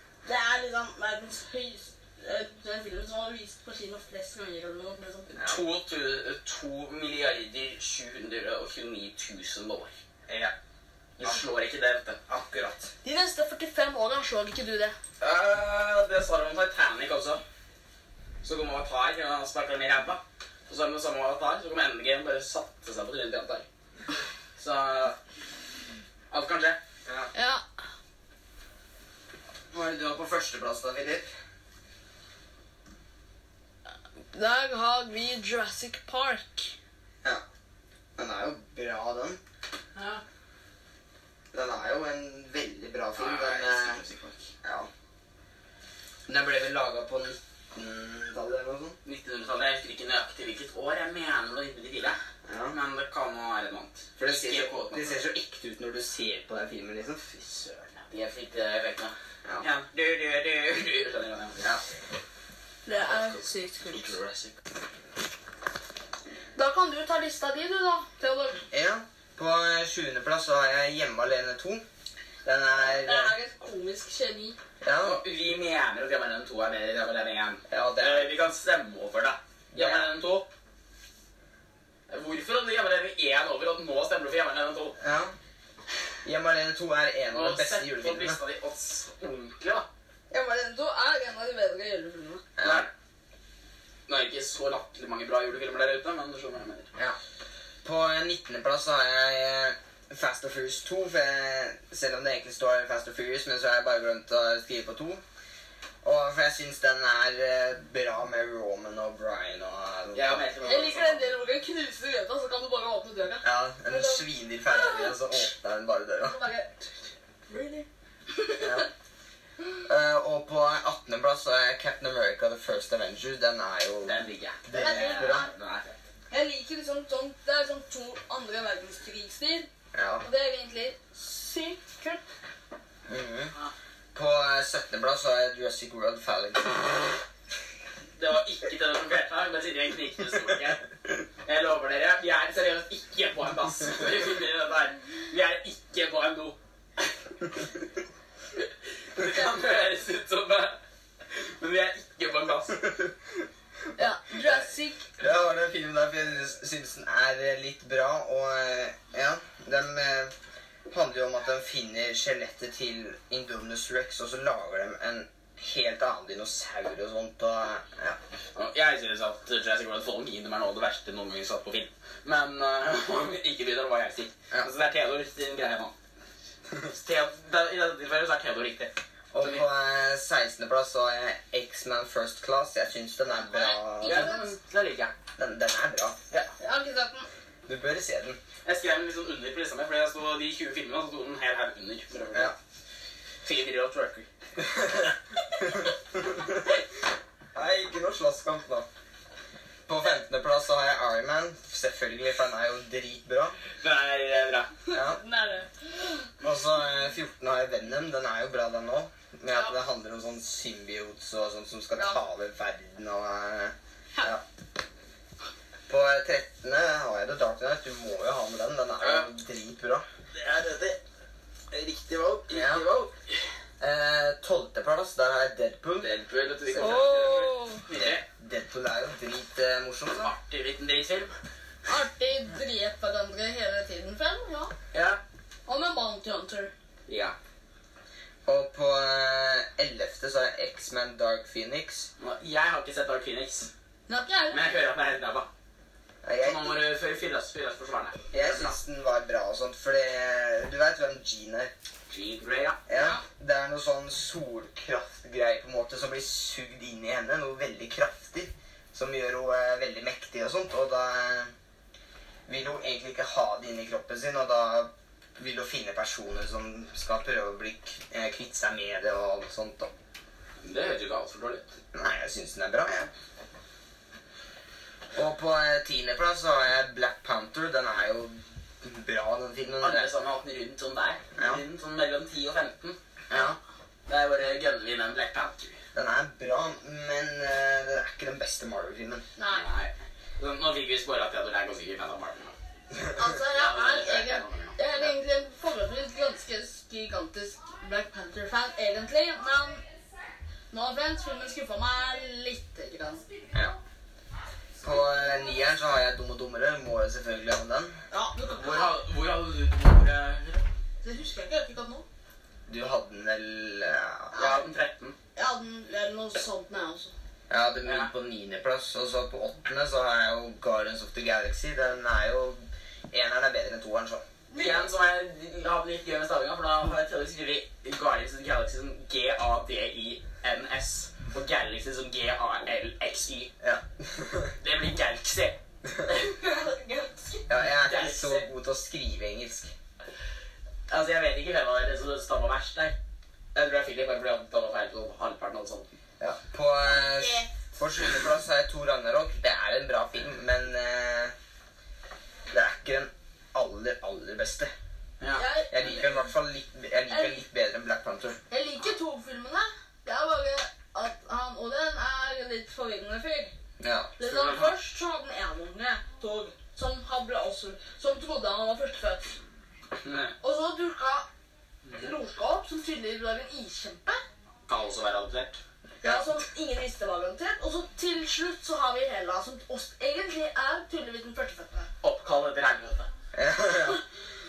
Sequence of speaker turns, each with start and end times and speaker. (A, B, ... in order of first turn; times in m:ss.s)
0:00.2-0:05.4 A
0:05.4-0:05.6 B
0:05.4-0:10.0 C
0:10.3-0:10.5 B
0:11.2-0:12.2 C
0:12.3-0:12.9 B
0:13.0-0:15.0 A
0:15.2-0:17.4 C
0:18.4-0:23.7 C
0:24.6-0:25.2 C
0:26.3-0:26.8 C
0:27.0-0:27.3 B
0:27.3-0:27.6 A
0:29.7-0:31.3 B
0:34.3-0:36.8 A
0:38.2-0:39.4 B
0:40.0-0:40.2 C
0:41.5-0:44.0 B
0:43.2-0:44.5 C
0:44.6-0:44.9 B
0:46.3-0:49.0 B
0:49.0-0:52.2 C
0:52.5-0:52.8 B
0:52.7-0:55.3 C
0:54.2-0:57.3 B
0:57.3-1:01.8 C
1:02.9-1:04.2 A
1:02.9-1:04.6 C
1:06.6-1:08.6 A
1:08.7-1:11.8 B
1:12.4-1:13.3 B
1:12.7-1:14.6 A
1:14.8-1:15.2 B
1:15.0-1:20.5 C
1:17.7-1:18.3 B
1:19.7-1:20.1 B
1:22.1-1:25.0 C
1:25.0-1:25.4 B
1:26.2-1:28.4 B
1:27.3-1:29.9 C
1:30.3-1:32.5 A
1:32.6-1:32.9 B
1:32.6-1:32.9 C
1:34.1-1:36.9 C
1:37.8-1:45.2 B
1:46.0-1:50.4 B
1:50.1-1:51.4 C
1:50.6-1:55.4 A
1:53.4-1:56.4 B
1:56.2-1:56.8 A
1:57.5-1:58.9 A
1:58.6-1:58.9 B
1:59.8-2:05.5 B
2:04.0-2:06.0 C
2:04.7-2:05.5 A
2:06.3-2:09.7 A
2:09.9-2:10.3 B
2:10.2-2:12.2 A
2:13.1-2:13.5 B
2:14.1-2:17.1 B
2:18.2-2:20.9 C
2:21.4-2:27.1 C
2:28.6-2:33.0 C
2:34.0-2:35.1 A
2:34.0-2:34.6 B
2:35.2-2:40.3 B
2:40.9-2:48.2 B
2:48.6-2:56.0 C
2:56.8-2:59.6 C
2:59.3-3:04.4 B
3:03.5-3:04.5 A
3:04.0-3:05.1 C
3:05.4-3:06.2 B
3:06.6-3:07.3 A
3:07.7-3:08.4 B
3:08.6-3:12.6 C
3:13.4-3:14.3 C
3:14.6-3:16.8 B
3:17.5-3:18.9 B
3:19.9-3:23.6 B
3:23.8-3:24.7 C
3:24.9-3:25.9 A
3:24.9-3:25.2 B
3:26.4-3:34.4 B
3:35.9-3:40.0 B
3:39.0-3:39.3 C
3:40.3-3:41.0 C
3:41.7-3:43.4 C
3:42.5-3:42.9 B
3:43.8-3:46.1 B
3:46.0-3:48.2 C
3:46.7-3:50.3 B
3:46.8-3:47.8 A
3:50.2-3:51.3 C
3:51.9-3:54.7 A
3:54.9-3:55.2 C
3:55.7-3:56.7 A
3:57.1-3:57.4 C
3:58.5-4:02.1 B
4:02.2-4:03.7 C
4:04.1-4:04.6 A
4:04.5-4:05.5 C
4:06.2-4:06.7 B
4:06.4-4:08.8 C
4:08.3-4:11.7 B
4:12.1-4:12.8 C
4:12.9-4:21.5 B
4:22.5-4:29.9 B
4:30.6-4:31.7 C
4:31.9-4:33.1 B
4:35.2-4:40.1 B
4:39.8-4:43.0 C
4:41.4-4:41.6 B
4:43.3-4:43.6 B
4:44.1-4:45.8 C
4:45.9-4:49.2 B
4:49.4-4:49.7 A
4:49.5-4:52.6 C
4:53.2-4:59.8 A
4:53.5-4:54.8 C
5:00.7-5:03.3 A
5:03.5-5:03.8 B
5:04.8-5:08.0 B
5:08.1-5:09.0 A
5:08.5-5:10.7 C
5:11.0-5:12.1 A
5:12.7-5:14.6 B
5:14.3-5:15.2 C
5:15.4-5:17.1 A
5:17.5-5:24.2 B
5:17.8-5:18.1 C
5:24.5-5:24.9 A
5:24.6-5:33.5 C
5:33.6-5:34.5 B
5:34.6-5:35.6 C
5:36.1-5:37.5 A
5:37.5-5:39.7 B
5:37.7-5:38.5 C
5:40.9-5:43.0 C
5:43.5-5:45.9 C
5:46.2-5:51.3 B
5:47.0-5:47.5 A
5:52.5-5:54.7 B
5:55.2-5:55.5 C
5:55.4-5:56.3 A
5:55.7-5:58.4 B
5:57.1-5:57.4 A
5:58.5-6:03.5 A
6:03.8-6:04.2 B
6:04.2-6:09.4 A
6:04.2-6:04.7 C
6:10.0-6:10.3 C
6:10.4-6:11.3 A
6:11.9-6:14.2 A
6:14.7-6:15.6 C
6:16.0-6:21.9 A
6:16.0-6:16.4 B
6:22.0-6:23.1 C
6:23.3-6:24.0 B